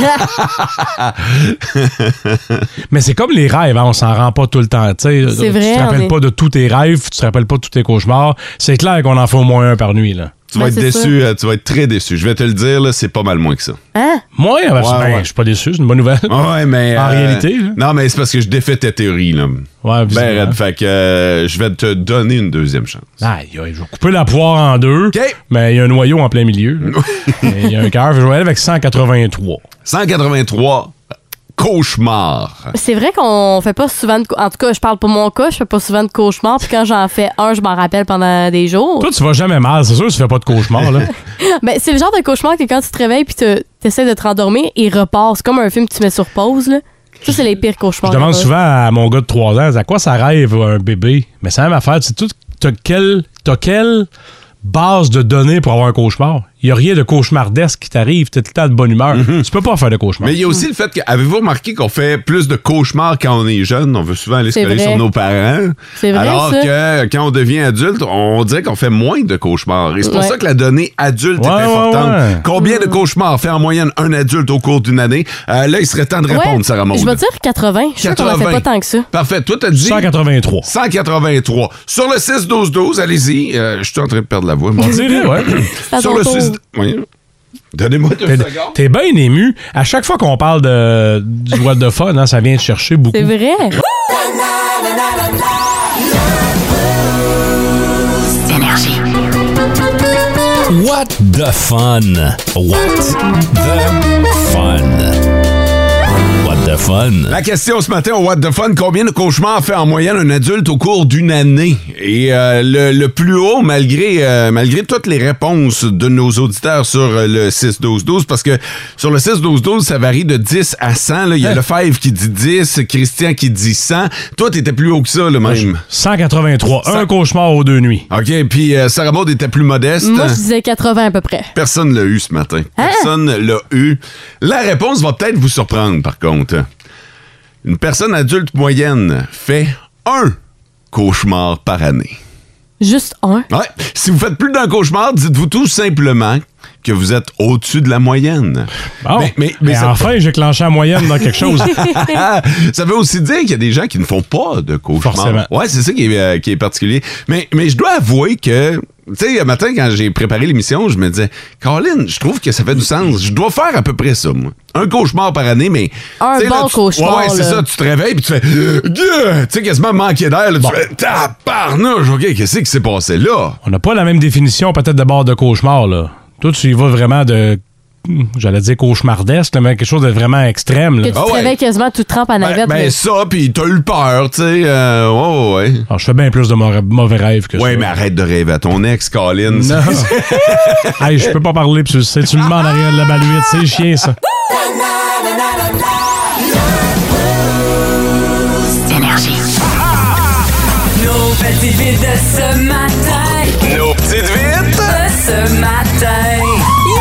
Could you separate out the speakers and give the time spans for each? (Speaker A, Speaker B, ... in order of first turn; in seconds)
Speaker A: 0.2-2.6, 10.5-13.8, 14.8-15.3, 16.3-23.1, 26.9-27.5, 29.9-30.9, 31.6-32.7, 59.1-59.5, 60.2-77.2, 78.0-80.1, 80.6-87.0, 87.7-88.8, 107.3-125.8, 128.1-130.4, 131.5-136.7, 137.6-140.4, 140.9-142.2, 143.5-150.1, 151.4-173.6, 181.1-181.5, 182.4-185.8, 187.5-191.0, 203.6-205.0
Speaker B: 2.9-10.3, 14.3-16.4, 16.9-17.8, 19.8-20.6, 23.2-29.6, 39.0-41.1, 48.0-54.1, 54.6-60.3, 71.4-72.4, 79.7-80.7, 84.8-85.5, 88.2-93.3, 125.4-128.1, 149.0-151.8, 155.0-155.5, 173.6-181.2, 185.9-187.9, 189.5-190.1, 191.0-194.2
Speaker C: 5.3-6.1, 10.6-11.1, 13.9-14.2, 32.7-39.1, 41.4-48.5, 64.5-65.0, 66.0-66.7, 70.0-70.3, 72.5-73.0, 76.3-79.0, 85.8-86.6, 93.1-93.8, 130.0-131.5, 132.8-133.1, 142.8-143.5, 151.7-152.2, 166.2-167.6, 181.0-182.9
Speaker D: 100.7-105.2, 106.4-107.3
Speaker E: 201.2-203.6, 204.9-206.7